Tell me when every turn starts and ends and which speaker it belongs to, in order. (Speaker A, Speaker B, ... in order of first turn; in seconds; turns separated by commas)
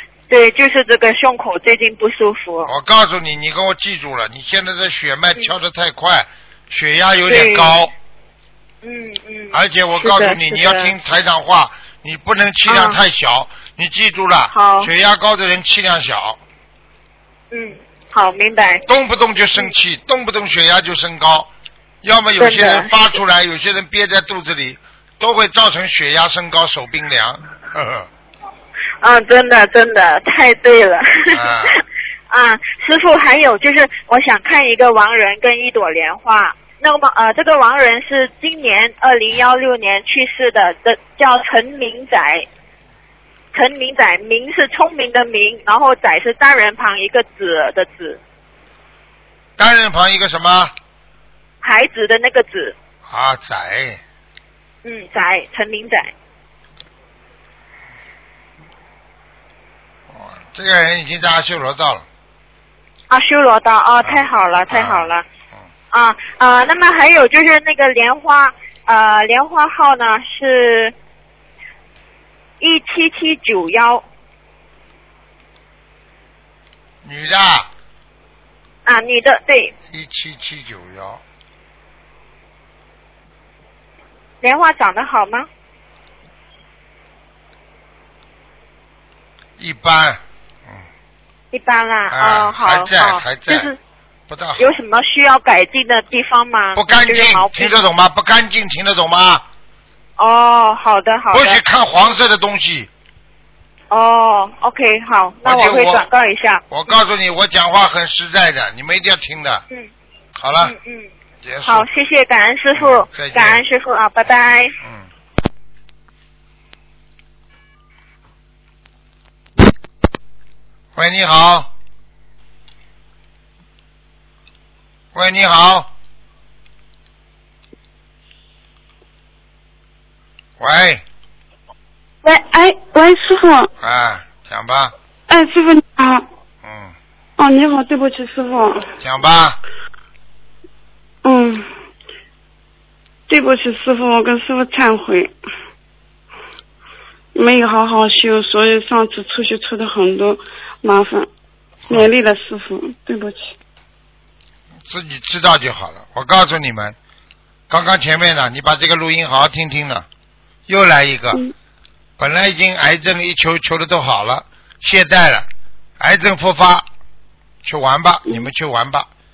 Speaker A: 0.3-2.7, Speaker B: 2.6-7.9, Speaker A: 7.3-7.8, Speaker A: 8.8-10.9, Speaker B: 9.5-16.4, Speaker A: 12.7-13.0, Speaker A: 14.5-14.9, Speaker A: 17.5-18.8, Speaker B: 18.9-21.5, Speaker B: 22.0-28.1, Speaker A: 22.4-22.9, Speaker A: 29.0-42.4, Speaker B: 31.3-31.8, Speaker A: 43.5-48.2, Speaker B: 49.6-50.7, Speaker A: 51.6-52.7, Speaker B: 53.1-54.0, Speaker A: 54.8-56.1, Speaker B: 60.1-62.0, Speaker A: 63.1-65.2, Speaker B: 64.0-65.7, Speaker A: 65.9-70.9, Speaker A: 72.6-74.0, Speaker B: 77.0-77.7, Speaker A: 78.8-79.7, Speaker B: 79.9-81.2, Speaker A: 84.4-85.5, Speaker B: 89.6-90.8, Speaker A: 91.5-93.8, Speaker B: 92.1-93.7, Speaker B: 94.3-94.8, Speaker A: 94.6-97.8, Speaker B: 96.7-99.4, Speaker A: 100.2-101.6, Speaker B: 101.3-102.9, Speaker A: 103.9-106.6, Speaker B: 105.4-106.1, Speaker B: 106.7-109.6, Speaker B: 110.4-110.7, Speaker A: 110.6-111.1, Speaker B: 111.4-111.9, Speaker A: 111.6-114.7, Speaker B: 112.7-113.6, Speaker B: 114.8-115.1, Speaker B: 121.0-121.7, Speaker B: 125.1-125.9, Speaker B: 130.6-131.0, Speaker C: 132.2-133.7, Speaker B: 133.8-134.9, Speaker C: 135.3-136.2, Speaker B: 136.6-136.9, Speaker C: 137.4-138.9, Speaker B: 139.0-139.6, Speaker C: 141.2-141.7, Speaker C: 143.3-145.3, Speaker C: 147.3-151.3, Speaker C: 151.9-153.5, Speaker B: 154.8-156.9, Speaker B: 157.7-160.1, Speaker B: 160.7-161.4, Speaker B: 162.2-165.5, Speaker B: 166.0-166.8, Speaker B: 167.6-169.1